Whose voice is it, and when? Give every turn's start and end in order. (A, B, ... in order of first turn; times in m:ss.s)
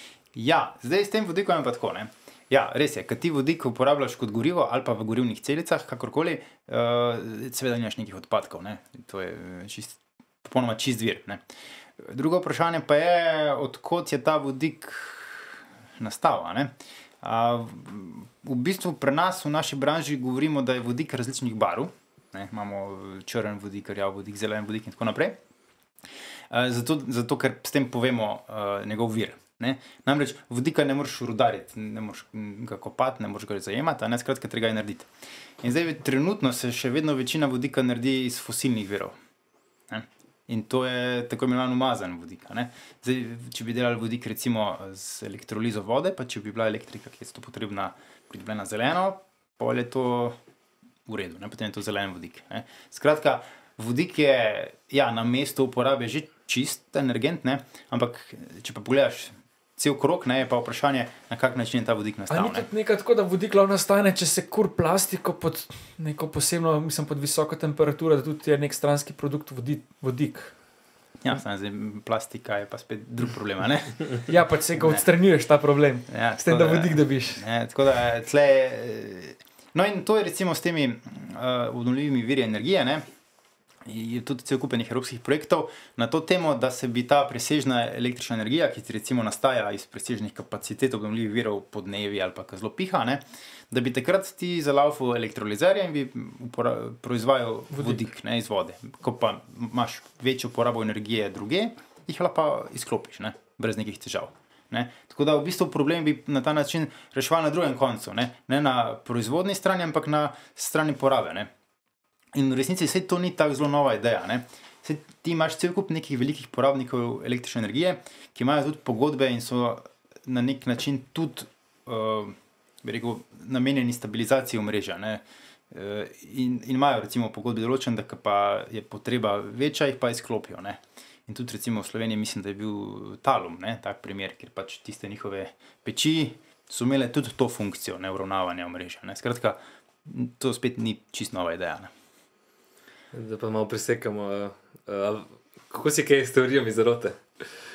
0:00.3-0:11.4 A
0:12.0-0:25.4 A
0:26.5-0:35.1 A
0:35.6-0:39.2 A
0:39.9-0:50.4 A
0:51.1-1:02.6 A
1:02.3-1:10.6 B
1:11.2-1:15.0 A
1:14.3-1:17.4 B
1:16.1-1:23.0 A
1:23.8-1:51.5 A
1:37.7-1:38.0 B
1:52.3-2:21.9 A
2:23.1-2:27.4 C